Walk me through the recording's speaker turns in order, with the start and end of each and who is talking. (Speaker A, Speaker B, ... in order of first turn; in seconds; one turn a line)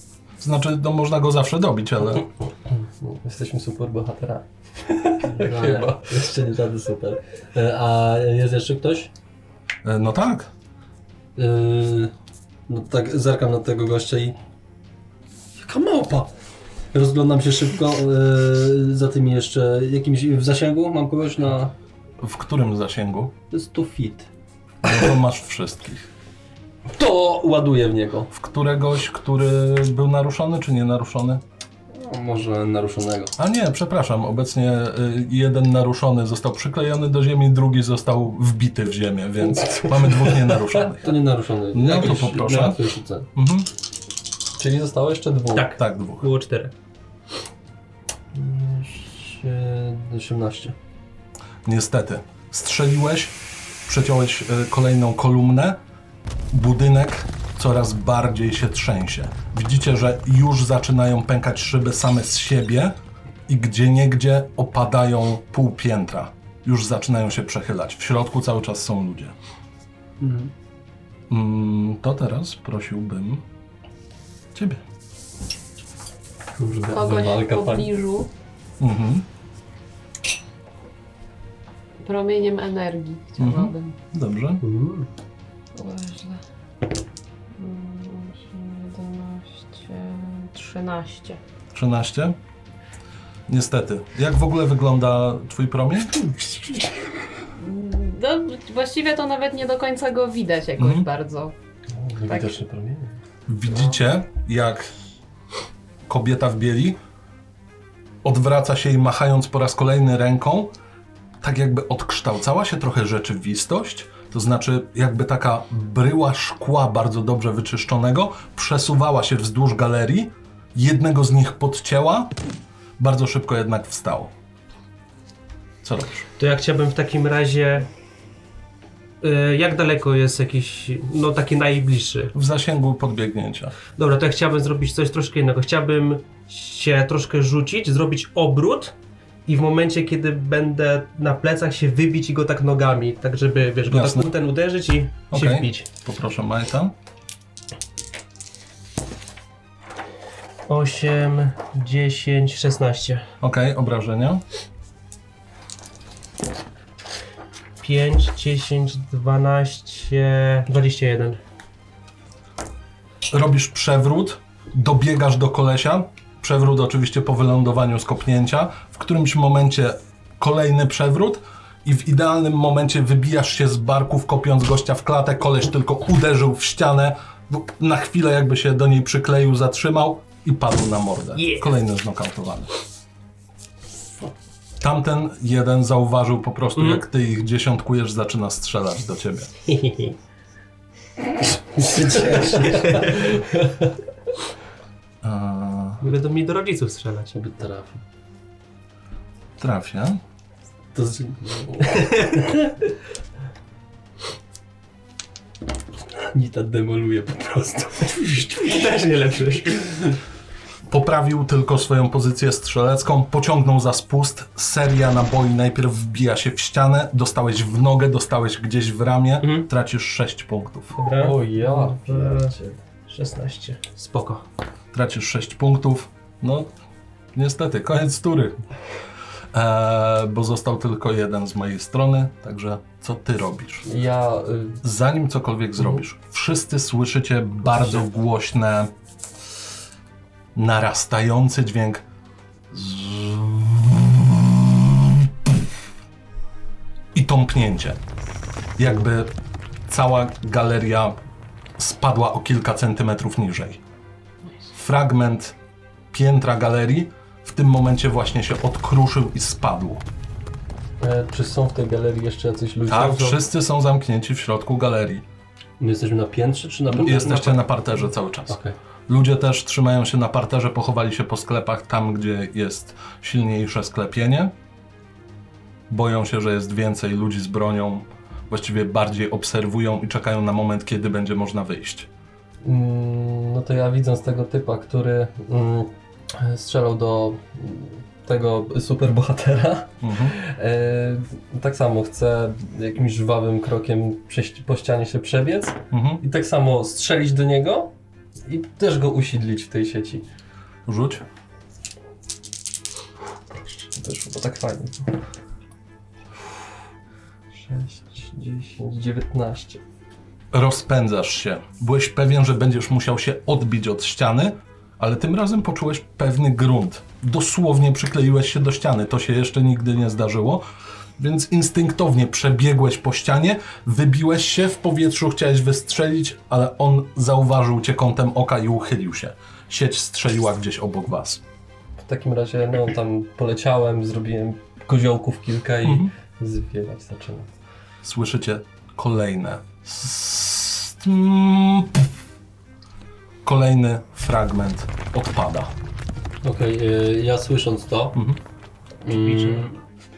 Speaker A: 0.4-2.3
Speaker B: 3.0-6.3
Speaker C: 5.2-9.1
Speaker A: 9.8-10.5
Speaker C: 11.3-12.1
Speaker C: 12.7-14.3
Speaker C: 15.6-16.3
Speaker C: 16.9-21.7
Speaker A: 22.2-23.3
Speaker C: 23.5-24.3
Speaker A: 24.8-26.1
Speaker C: 26.9-28.3
Speaker A: 28.3-31.4
Speaker C: 31.9-33.3
Speaker A: 33.4-41.2
Speaker C: 41.0-43.2
Speaker A: 41.7-42.8
Speaker A: 43.3-43.7
Speaker B: 44.6-45.7
Speaker D: 45.5-46.7
Speaker A: 45.8-46.2
Speaker C: 48.3-50.7
Speaker A: 51.6-53.3
Speaker A: 53.9-55.8
Speaker A: 56.5-62.9
Speaker A: 63.5-69.3
Speaker C: 70.2-70.5
Speaker A: 71.3-73.4
Speaker A: 74.5-74.8
Speaker B: 76.5-77.9
Speaker E: 76.9-78.3
Speaker A: 78.8-79.2
Speaker E: 82.0-83.9
Speaker A: 83.4-84.6
Speaker D: 84.6-85.1
Speaker E: 85.7-86.4
Speaker E: 87.5-91.4
Speaker A: 91.7-92.4
Speaker A: 93.5-96.3
Speaker E: 97.5-101.5
Speaker A: 100.8-101.1
Speaker C: 102.1-103.1
Speaker E: 102.3-102.6
Speaker A: 103.5-104.9
Speaker A: 106.1-107.0
Speaker A: 108.2-110.7
Speaker A: 111.4-122.4
Speaker A: 123.0-124.3
Speaker A: 125.8-126.2
Speaker D: 126.4-127.9
Speaker D: 129.2-132.3
Speaker A: 132.3-133.7
Speaker D: 133.9-138.9
Speaker D: 139.4-145.9
Speaker A: 143.9-144.3
Speaker A: 145.3-146.9
Speaker D: 150.7-153.3
Speaker A: 153.4-154.4
Speaker D: 157.8-161.4
Speaker A: 163.3-182.7
Speaker D: 181.3-181.7
Speaker A: 184.8-189.5
Speaker D: 186.8-187.0
Speaker D: 189.7-190.1
Speaker C: 191.8-193.2
Speaker D: 192.7-193.4
Speaker A: 195.2-196.1
Speaker D: 196.0-197.3
Speaker C: 197.3-198.0
Speaker A: 199.6-200.2
Speaker C: 200.9-202.3
Speaker D: 202.0-202.5
Speaker C: 206.2-208.8
Speaker D: 208.4-210.1
Speaker A: 210.9-220.9
Speaker D: 219.4-219.7
Speaker D: 220.9-222.5
Speaker B: 221.2-222.8
Speaker D: 223.1-224.4
Speaker A: 224.9-226.7
Speaker A: 227.3-228.6
Speaker A: 229.5-233.9
Speaker B: 233.8-234.8
Speaker A: 234.8-238.9
Speaker A: 240.5-242.0
Speaker A: 242.7-245.7
Speaker A: 247.1-248.0
Speaker A: 248.8-249.3
Speaker A: 249.9-251.2
Speaker A: 251.8-253.8
Speaker A: 254.7-255.6
Speaker A: 256.1-260.0
Speaker B: 261.0-263.4
Speaker A: 262.9-265.2
Speaker C: 265.8-267.6
Speaker A: 266.9-274.5
Speaker C: 268.5-268.7
Speaker A: 275.9-282.1
Speaker B: 282.6-297.9
Speaker A: 290.0-290.4
Speaker A: 295.9-296.2
Speaker B: 298.4-300.2
Speaker A: 300.9-301.2
Speaker B: 303.5-305.2
Speaker B: 307.5-309.8
Speaker A: 310.5-320.6
Speaker A: 321.2-331.4
Speaker B: 332.0-337.5
Speaker A: 335.8-336.1
Speaker A: 338.0-342.1
Speaker A: 343.4-345.7
Speaker C: 346.4-348.2
Speaker A: 348.1-348.4
Speaker C: 349.0-349.8
Speaker D: 349.1-349.7